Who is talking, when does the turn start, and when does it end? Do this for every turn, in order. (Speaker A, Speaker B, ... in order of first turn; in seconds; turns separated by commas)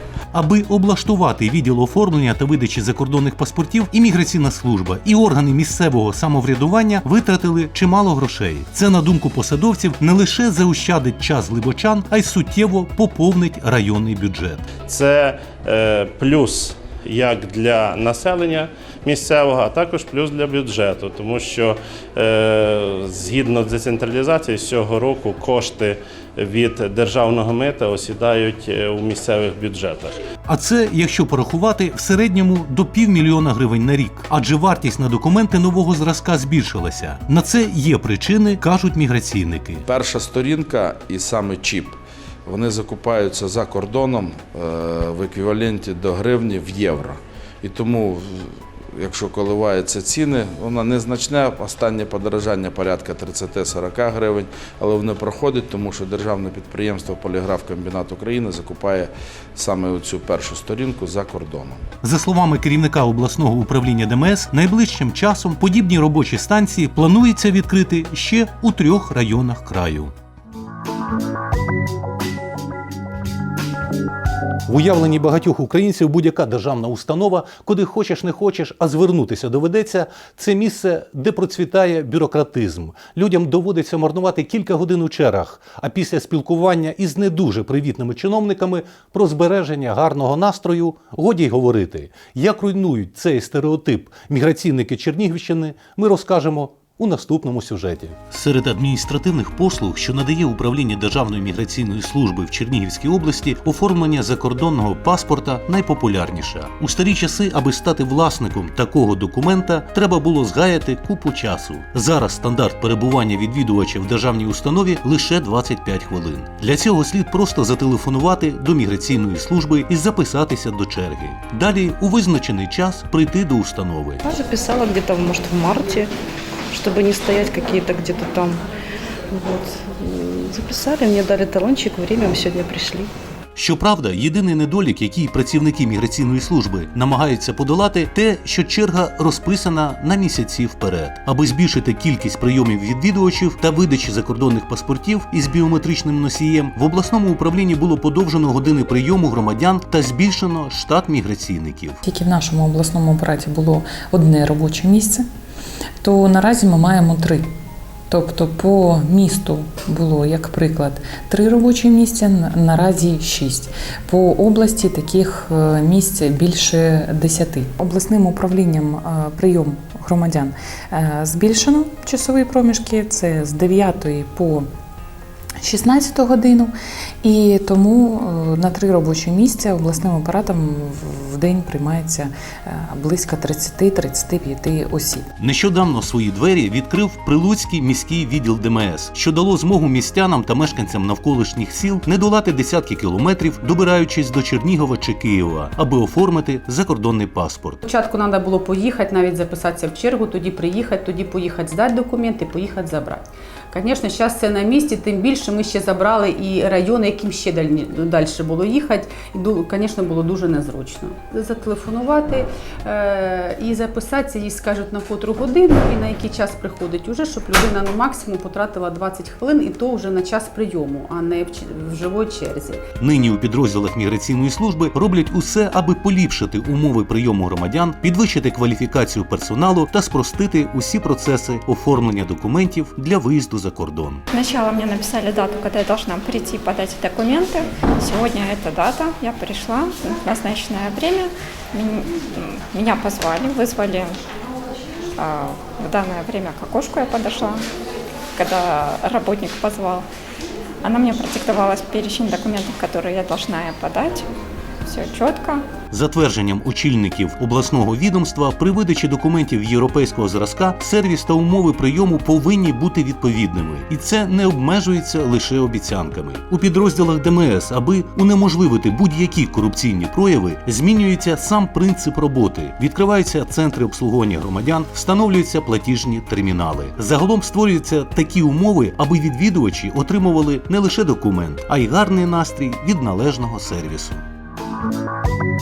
Speaker A: 0.3-14.7, Speaker B: 14.8-30.2, Speaker A: 30.4-39.9, Speaker C: 39.9-42.0, Speaker C: 42.5-61.8, Speaker A: 62.0-70.1, Speaker A: 74.7-124.2, Speaker D: 124.2-126.1, Speaker D: 126.7-128.6, Speaker D: 130.2-133.1, Speaker A: 133.6-152.0, Speaker E: 152.0-155.2, Speaker E: 156.0-157.5, Speaker E: 158.1-174.7, Speaker E: 175.6-185.3, Speaker A: 185.4-197.8, Speaker F: 197.8-222.8, Speaker A: 223.0-234.2, Speaker G: 234.3-244.2, Speaker G: 245.2-247.6, Speaker G: 248.3-250.1, Speaker G: 250.8-254.2, Speaker G: 254.8-255.6, Speaker A: 255.9-284.2